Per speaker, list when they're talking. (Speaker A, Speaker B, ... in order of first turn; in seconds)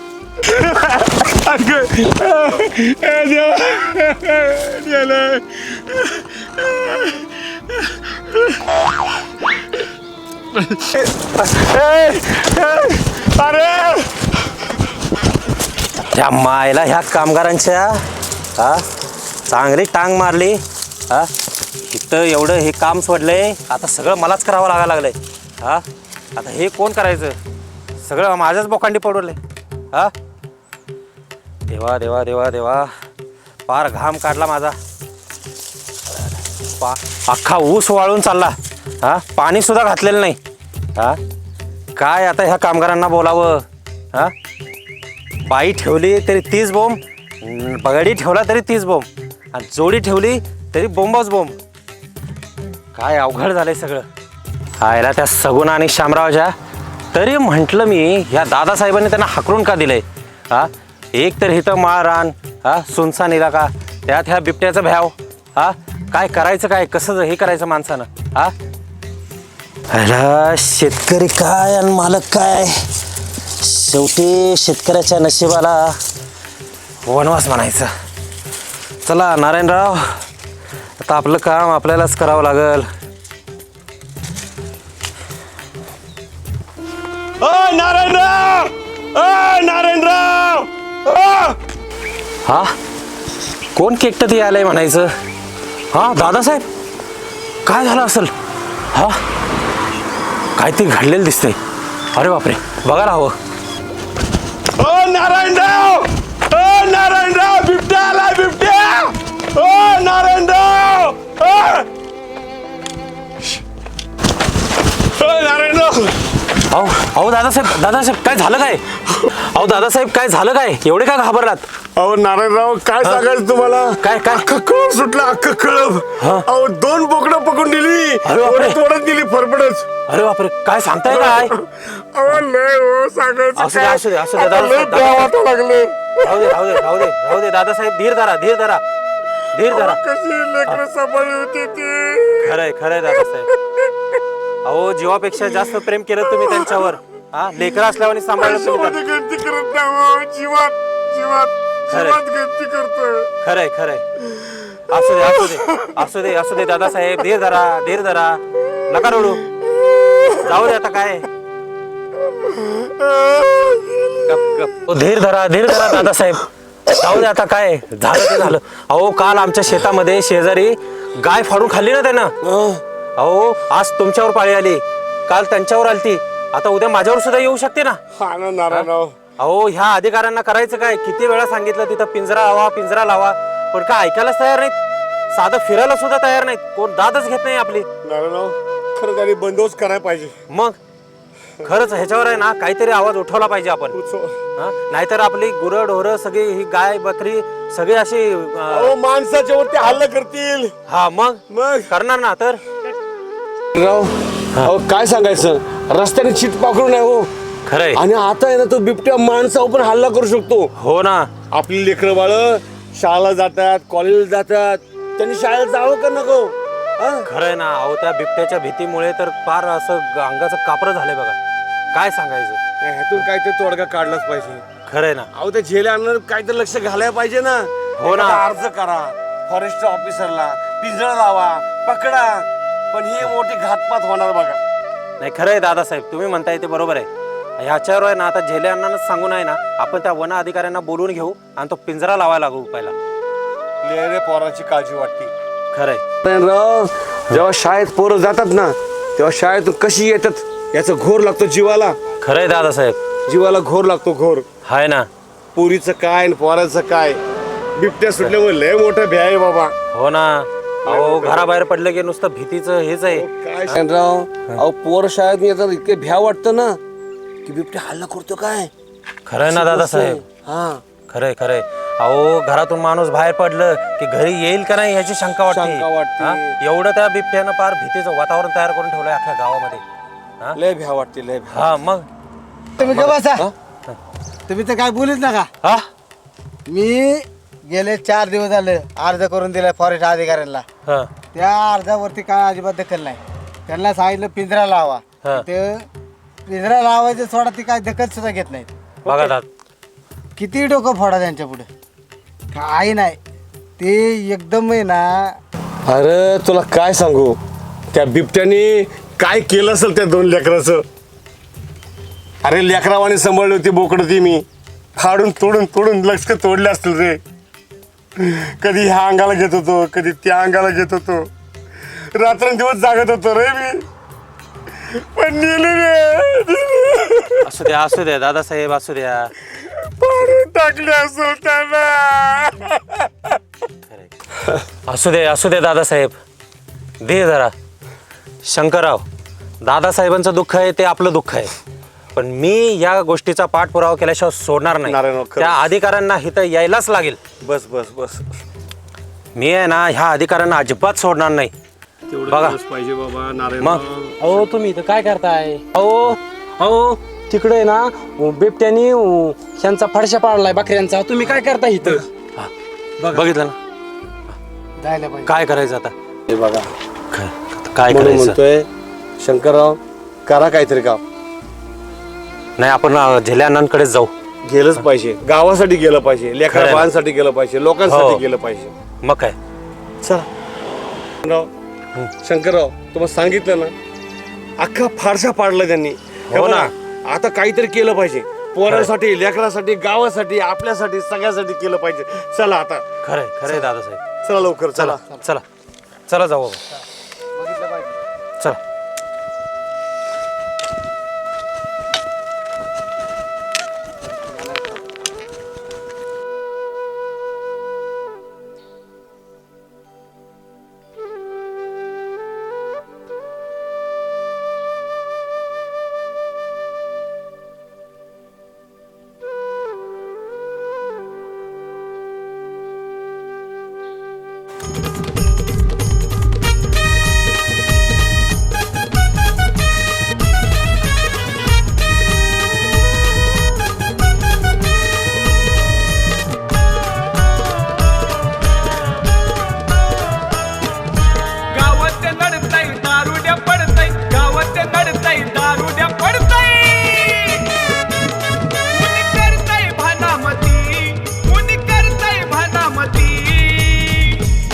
Speaker A: 0.6-7.3, 10.5-14.2, 87.4-91.6, 104.7-111.9, 115.0-116.2, 122.0-129.9, 131.1-136.1, 139.7-142.4, 148.4-153.3, 172.4-172.8, 178.1-179.2, 188.0-190.4, 193.9-194.4, 198.7-200.7, 201.5-201.9, 203.7-207.3, 207.9-210.7, 211.5-217.3, 222.8-224.6, 225.3-234.6, 243.8-245.3, 246.2-252.0, 253.3-254.5, 255.5-257.2, 257.8-259.7, 260.9-261.5, 263.1-266.8, 267.4-268.7, 269.4-270.8, 275.5-276.6, 280.5-281.6, 282.8-283.5, 305.8-307.4, 307.9-310.8, 312.4-314.4, 315.0-317.2, 318.1-321.3, 321.9-323.8, 324.8-327.5, 329.8-333.2, 344.9-345.6, 347.4-348.2, 352.1-354.5, 366.3-366.7, 367.9-368.7, 369.2-371.0, 374.4-378.7, 380.0-380.3, 381.2-381.5, 382.2-383.7, 384.6-392.9, 394.2-395.0
Speaker B: 16.1-18.0, 18.6-18.9, 19.5-21.3, 21.9-25.8, 26.4-27.4, 28.0-29.4, 31.7-32.9, 33.7-34.8, 36.8-40.4, 42.0-44.3, 45.5-51.6, 52.9-54.0, 54.8-56.5, 57.1-68.5, 69.9-72.9, 73.6-76.0, 77.0-77.9, 79.0-80.2, 81.0-82.9, 92.4-92.7, 93.8-95.1, 95.9-96.6, 97.7-98.3, 98.9-99.2, 100.6-101.6, 102.1-103.3, 116.7-121.7, 124.0-124.4, 126.2-126.5, 128.2-128.8, 130.1-131.5, 133.5-135.3, 136.2-138.8, 139.5-140.0, 142.4-143.5, 144.6-149.0, 151.9-152.2, 153.4-159.5, 160.2-161.3, 164.2-172.3, 173.2-178.0, 178.7-184.7, 185.3-187.9, 190.5-190.8, 191.6-194.0, 194.6-198.9, 200.9-202.6, 207.7-208.0, 210.8-211.3, 217.2-221.4, 221.9-222.6, 224.8-225.3, 228.0-228.4, 235.2-237.1, 237.6-242.9, 245.7-246.0, 252.2-253.0, 254.6-255.1, 259.9-263.8, 269.2-270.2, 271.1-279.8, 281.5-282.1, 285.6-285.9, 299.0-299.5, 327.4-329.3, 334.9-336.1, 337.0-337.5, 338.4-339.0, 339.6-341.5, 342.1-347.2, 349.3-351.5, 352.3-352.6, 355.6-356.1, 362.4-363.6, 365.2-365.9, 367.1-368.4, 372.6-374.1, 376.5-376.9, 377.9-378.2, 379.0-379.4, 386.3-386.7, 393.0-394.0, 394.8-395.4, 396.1-396.6
Speaker C: 282.8-283.5, 284.5-285.5, 286.6-290.6, 291.3-295.9, 296.4-298.7, 300.4-301.7, 302.5-303.2, 303.8-305.4, 364.8-365.3, 397.4-398.0
Speaker D: 354.2-362.1, 441.5-447.7, 448.7-454.4